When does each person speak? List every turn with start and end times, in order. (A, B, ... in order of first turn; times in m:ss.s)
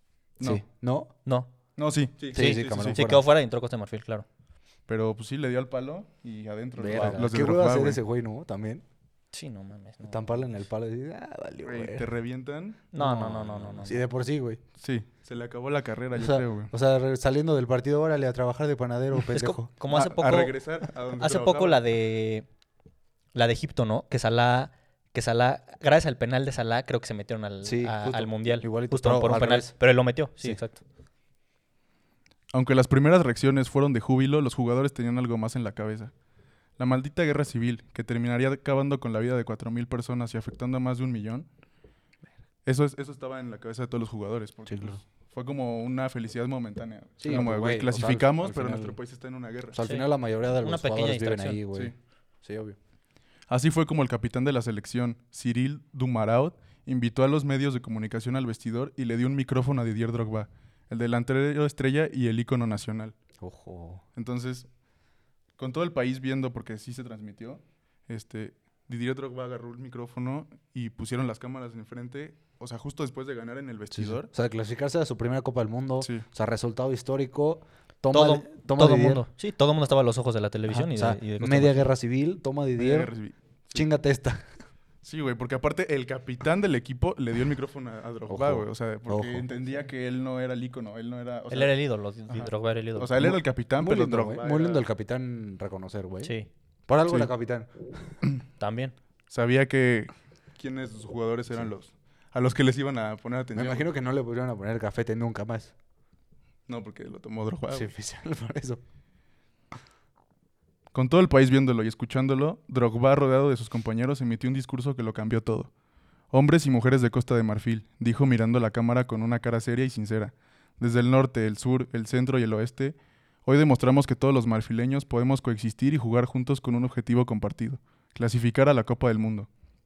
0:00.4-0:01.1 A
0:01.8-0:03.0 B
0:02.3-0:03.2 A
0:02.3-0:04.3 C
0:04.9-0:08.0 B
0:06.8-0:08.8 A
0:09.3-0:10.2 C
0:10.0-0:12.1 A
0:11.6-0:12.8 B
0:12.9-0:14.0 C
0:13.0-0:14.6 A
0:14.8-0:16.7 B
0:16.1-0:19.7 A
0:19.3-0:20.6 C
0:19.9-0:21.8 B
0:21.2-0:22.5 C
0:23.3-0:30.8 C
0:27.6-0:29.8 A
0:32.5-0:36.1 B
0:36.8-0:41.5 B
0:42.6-0:49.8 B
0:44.7-0:45.0 A
0:47.2-0:49.0 A
0:49.7-0:52.8 A
0:49.8-0:50.1 C
0:50.6-0:51.6 C
0:53.5-1:03.2 B
1:03.4-1:04.0 A
1:04.2-1:04.7 B
1:05.6-1:14.3 B
1:13.9-1:19.2 A
1:18.1-1:21.9 C
1:20.7-1:23.1 A
1:22.8-1:23.9 B
1:23.7-1:24.5 A
1:25.0-1:31.8 B
1:28.3-1:29.5 A
1:31.5-1:33.2 C
1:32.3-1:34.8 B
1:33.2-1:36.3 A
1:36.2-1:36.5 C
1:36.9-1:38.2 A
1:38.6-1:39.0 C
1:39.3-1:43.9 B
1:43.6-1:45.7 A
1:46.7-1:47.9 B
1:47.7-1:48.8 A
1:50.9-1:55.7 B
1:56.3-2:09.5 B